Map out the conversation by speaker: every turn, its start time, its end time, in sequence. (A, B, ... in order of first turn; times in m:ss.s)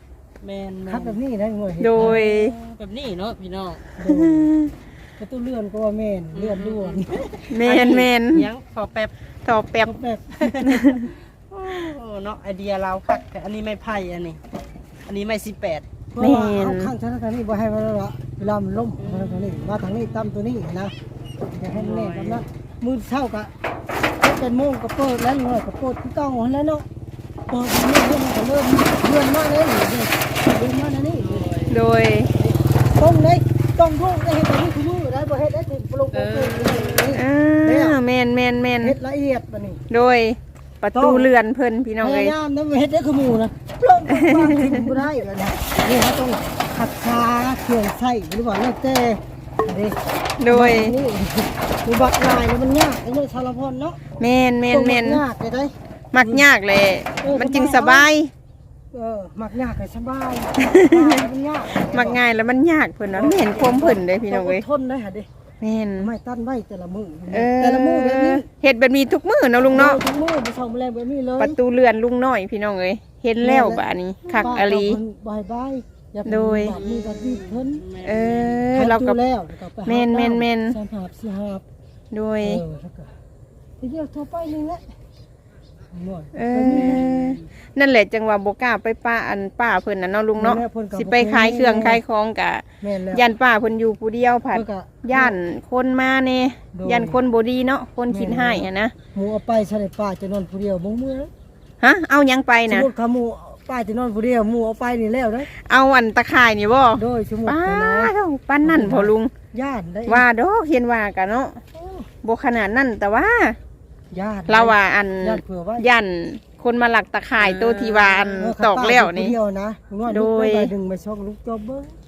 0:00.4-0:01.2 A
0:00.9-0:02.2 B
0:01.8-0:02.5 C
0:02.0-0:03.9 A
0:04.0-0:04.5 B
0:04.1-0:04.7 C
0:05.2-0:07.2 B
0:06.3-0:09.1 A
0:07.5-0:08.5 C
0:09.4-0:09.9 C
0:09.8-0:10.8 B
0:10.4-0:10.8 A
0:10.7-0:11.0 C
0:11.5-0:14.4 A
0:15.1-0:15.8 A
0:16.1-0:20.9 B
0:16.2-0:16.9 C
0:19.0-0:19.9 A
0:21.5-0:23.5 B
0:21.7-0:22.4 A
0:24.2-0:26.8 B
0:27.5-0:31.5 B
0:31.2-0:31.8 A
0:31.7-0:32.4 C
0:32.4-0:38.0 B
0:36.1-0:37.1 A
0:37.1-0:39.0 C
0:38.8-0:39.8 B
0:39.9-0:42.4 C
0:40.9-0:41.3 B
0:42.0-0:54.0 B
0:44.3-0:44.7 C
0:50.4-0:51.0 C
0:54.2-0:55.2 C
0:54.7-0:56.4 B
0:56.1-0:58.3 C
0:57.2-0:58.1 B
0:58.9-1:02.2 B
1:00.6-1:01.2 C
1:01.7-1:04.6 C
1:03.1-1:05.3 B
1:05.6-1:06.1 C
1:06.0-1:08.5 B
1:07.3-1:10.0 C
1:09.7-1:11.6 B
1:11.4-1:15.0 C
1:13.4-1:17.8 B
1:16.2-1:16.8 C
1:16.6-1:18.7 A
1:18.0-1:19.2 C
1:18.7-1:21.6 B
1:19.8-1:20.8 C
1:22.1-1:22.6 C
1:22.4-1:23.1 B
1:23.8-1:24.9 B
1:25.9-1:27.2 B
1:26.3-1:38.9 C
1:26.8-1:27.4 A
1:30.4-1:32.0 B
1:32.8-1:33.2 B
1:34.5-1:35.4 B
1:36.7-1:37.2 B
1:38.1-1:41.3 B
1:41.8-1:42.9 C
1:42.7-1:45.5 B
1:45.6-1:49.3 C
1:47.0-1:50.2 B
1:50.1-1:51.6 C
1:51.7-1:52.1 B
1:52.2-1:53.6 C
1:54.1-1:55.9 B
1:54.5-1:59.4 C
1:57.4-1:58.3 A
1:58.4-2:01.9 B
2:00.1-2:00.7 C